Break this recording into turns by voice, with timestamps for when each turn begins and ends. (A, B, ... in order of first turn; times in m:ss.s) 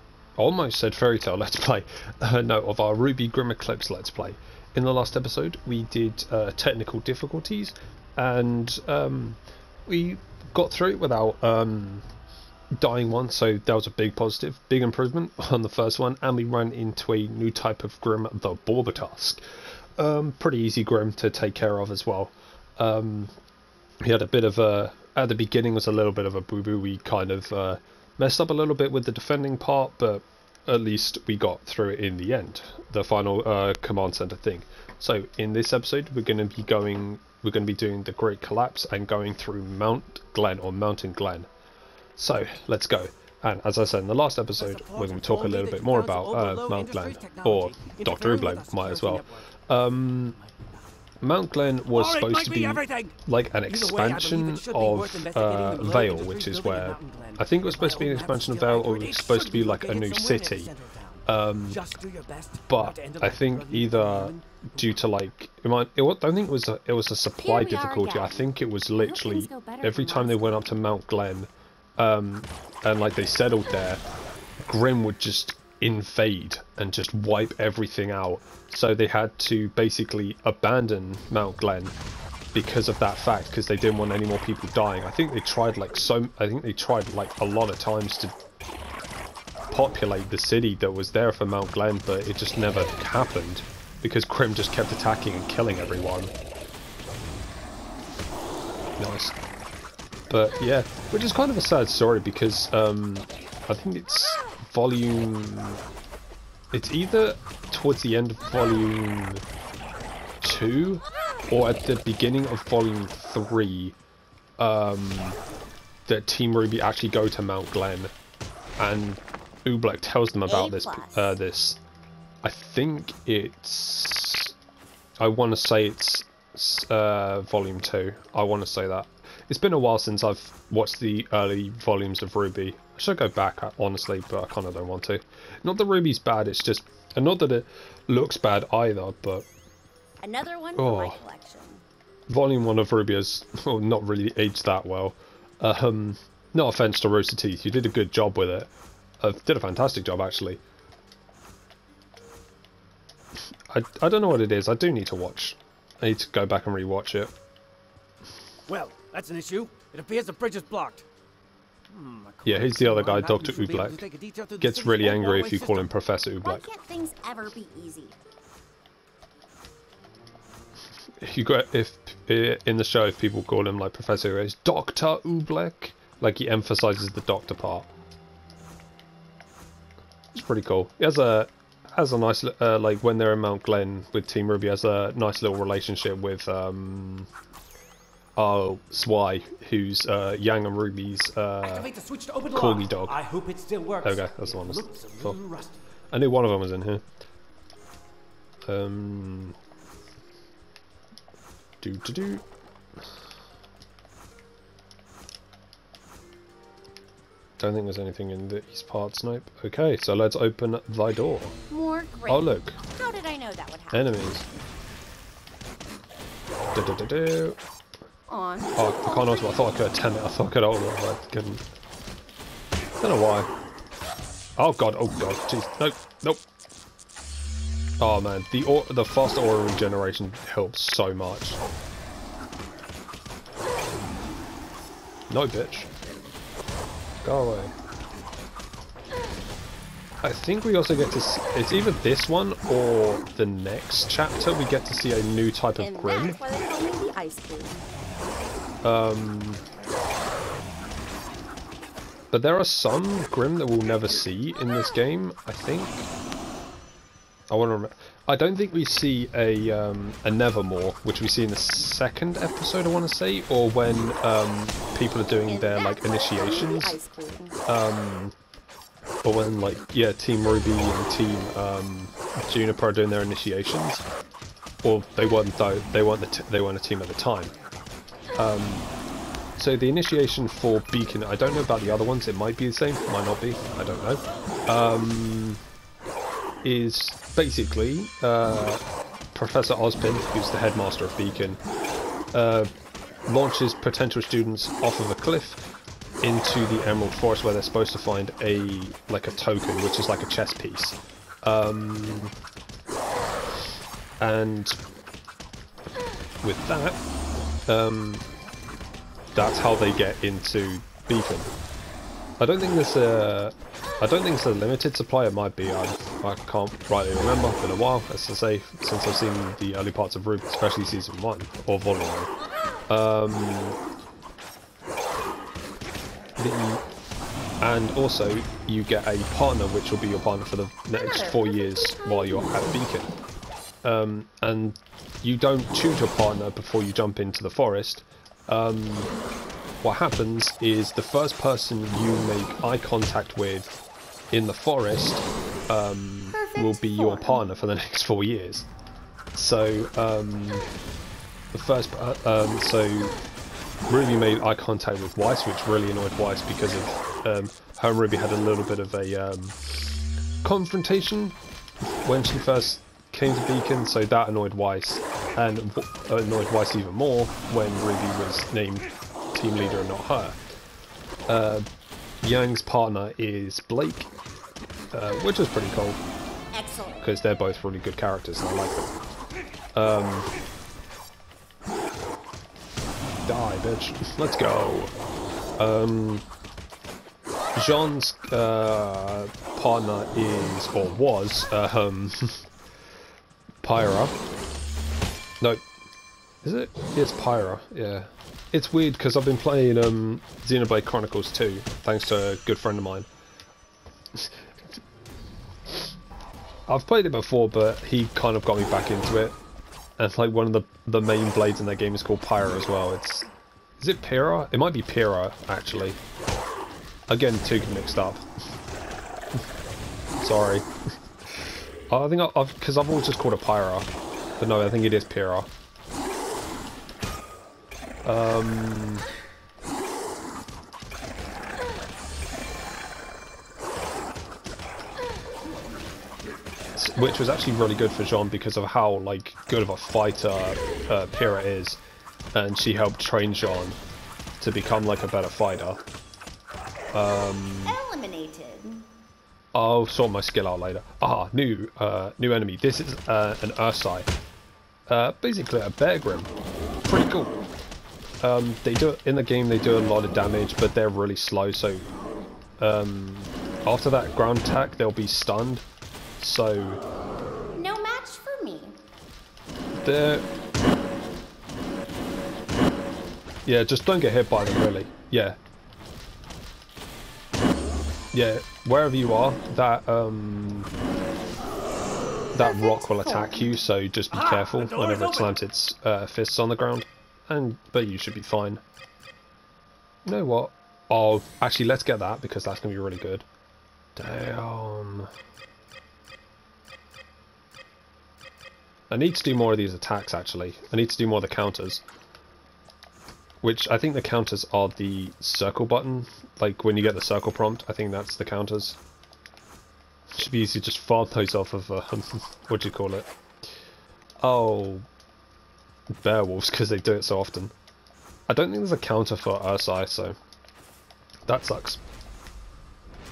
0:00.4-0:12.1 A
0:12.8-0:19.4 A
0:20.0-0:23.3 A
0:24.0-0:41.5 A
0:42.2-0:50.4 A
0:44.6-0:50.9 B
0:51.2-1:00.7 A
0:51.9-1:05.0 B
1:01.3-1:01.8 A
1:02.7-1:14.0 A
1:07.4-1:10.8 C
1:14.6-1:21.9 A
1:22.5-1:28.4 A
1:29.7-1:36.3 A
1:39.0-1:39.4 A
1:40.3-1:45.8 A
1:46.7-1:49.4 A
1:50.4-1:54.0 A
1:54.6-1:55.4 A
1:56.1-1:58.1 A
1:58.8-2:01.8 A
2:00.4-2:01.4 C
2:02.4-2:04.6 A
2:05.2-2:19.5 A
2:20.2-2:21.8 C
2:20.8-2:21.2 A
2:22.3-2:28.7 A
2:29.2-2:30.6 A
2:33.7-2:37.3 A
2:38.7-2:41.0 B
2:41.9-2:45.9 B
2:42.4-2:44.0 A
2:44.6-2:46.7 A
2:46.4-2:48.2 C
2:51.2-2:57.9 A
3:00.3-3:07.3 A
3:08.4-3:11.9 A
3:11.6-3:15.8 B
3:12.5-3:13.2 A
3:14.0-3:15.4 A
3:16.1-3:17.0 A
3:18.7-3:19.6 A
3:21.8-3:22.4 A
3:27.6-3:31.6 A
3:31.7-3:34.2 C
3:32.3-3:32.8 A
3:33.9-3:34.5 A
3:36.7-3:37.6 A
3:38.3-3:39.8 C
3:38.8-3:41.6 A
3:43.0-3:43.5 A
3:44.6-3:46.4 A
3:48.0-3:51.6 A
3:55.3-3:55.9 A
3:57.2-3:57.7 A
4:00.2-4:06.4 A
4:05.8-4:07.8 C
4:08.8-4:09.6 A
4:12.3-4:16.0 A
4:17.5-4:27.0 A
4:25.4-4:27.6 C
4:27.7-4:28.4 A
4:29.2-4:34.1 A
4:34.8-4:37.5 A
4:38.4-4:38.9 A
4:39.6-4:45.6 A
4:46.6-4:48.8 A
4:49.4-4:51.6 A
4:52.3-4:52.7 A
4:53.3-4:55.6 A
4:56.2-5:02.3 A
5:04.2-5:04.8 A
5:06.4-5:07.0 A
5:07.7-5:08.2 A
5:09.4-5:11.5 A
5:12.4-5:22.3 A
5:22.9-5:23.8 A
5:26.4-5:26.8 A
5:27.6-5:33.1 A
5:31.2-5:31.7 C
5:33.8-5:39.1 A
5:39.8-5:48.7 A
5:46.3-5:47.5 C
5:49.4-5:50.7 A
5:51.5-5:53.1 A
5:53.9-6:01.4 A
6:02.0-6:10.4 A
6:11.3-6:11.6 A
6:12.2-6:14.1 A
6:14.9-6:16.0 A
6:16.5-6:17.0 C
6:17.0-6:18.9 A
6:19.8-6:20.3 A
6:23.2-6:24.9 A
6:25.6-6:26.2 A
6:27.6-6:32.5 A
6:33.6-6:34.1 A
6:36.4-6:43.1 A
6:44.2-6:44.4 A
6:46.7-6:49.4 A
6:50.0-6:53.3 A
6:53.8-6:56.0 A
6:57.1-6:58.2 A
7:00.2-7:00.7 A
7:01.4-7:05.5 A
7:08.0-7:09.1 A
7:16.8-7:21.8 A
7:22.3-7:23.8 A
7:24.4-7:25.8 A
7:26.9-7:27.8 A
7:27.6-7:28.9 C
7:29.5-7:34.1 A
7:34.9-7:36.3 A
7:36.8-7:37.4 A
7:38.2-7:41.9 A
7:42.6-7:45.6 A
7:46.2-7:46.8 A
7:47.6-7:48.8 C
7:49.8-7:50.2 A
7:53.4-7:55.4 A
7:58.1-8:00.7 A
8:02.3-8:08.6 A
8:02.4-8:03.6 C
8:04.1-8:05.3 B
8:10.1-8:13.3 A
8:14.0-8:15.1 A
8:18.9-8:21.8 A
8:23.4-8:28.8 A
8:30.2-8:33.1 A
8:34.2-8:34.8 A
8:36.0-8:37.5 A
8:38.3-8:40.2 A
8:41.3-8:41.8 A